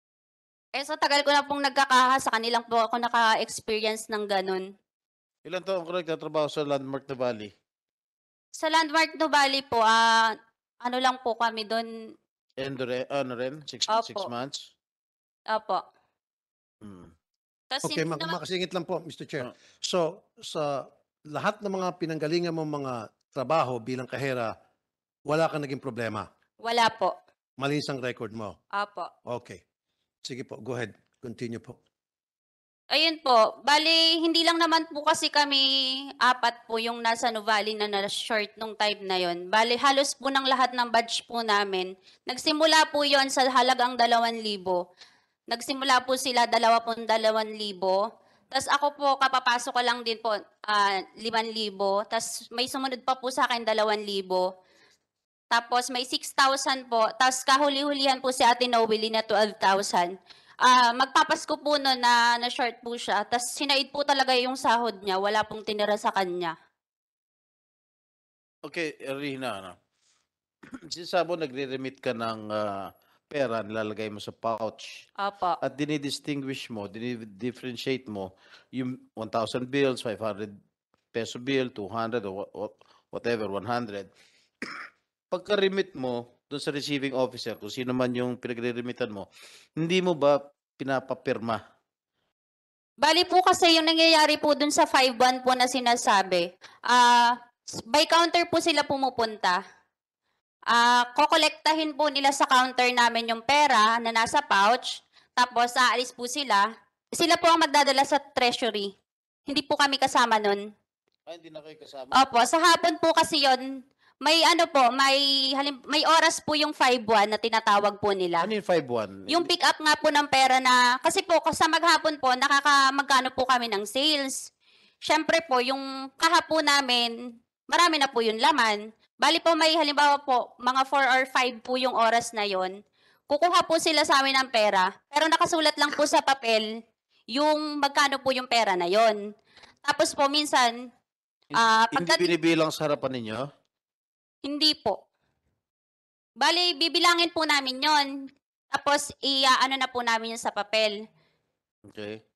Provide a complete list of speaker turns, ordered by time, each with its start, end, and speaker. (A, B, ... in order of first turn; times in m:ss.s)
0:00.8-0:04.7 A
0:05.5-0:07.5 B
0:08.6-0:11.9 A
0:12.6-0:14.7 B
0:13.9-0:14.3 A
0:15.5-0:15.8 A
0:16.8-0:17.1 B
0:17.7-0:18.4 A
0:17.8-0:24.5 C
0:25.3-0:26.3 C
0:26.6-0:27.2 A
0:27.6-0:28.6 C
0:28.8-0:29.1 A
0:29.3-0:29.6 C
0:30.2-0:31.8 C
0:32.9-0:35.7 A
0:36.2-0:44.8 A
0:45.5-0:48.0 A
0:48.5-0:54.5 A
0:55.5-1:00.1 A
1:00.6-1:06.5 A
1:08.7-1:09.8 B
1:10.9-1:15.0 B
1:15.2-1:15.6 A
1:15.6-1:20.6 B
1:21.1-1:24.1 B
1:25.3-1:29.3 B
1:29.8-1:31.6 B
1:33.0-1:37.4 A
1:37.9-1:39.6 A
1:40.7-1:46.6 A
1:47.2-1:48.9 A
1:49.5-1:50.6 A
1:51.3-1:52.2 B
1:52.2-1:53.6 A
1:54.2-1:58.5 A
1:58.4-1:59.5 B
1:59.3-2:04.4 A
2:05.1-2:07.1 A
2:07.7-2:12.8 A
2:13.3-2:16.7 A
2:17.3-2:19.2 A
2:19.8-2:20.7 A
2:21.5-2:23.5 B
2:21.6-2:22.3 A
2:24.4-2:25.0 A
2:26.4-2:31.0 A
2:31.9-2:32.2 B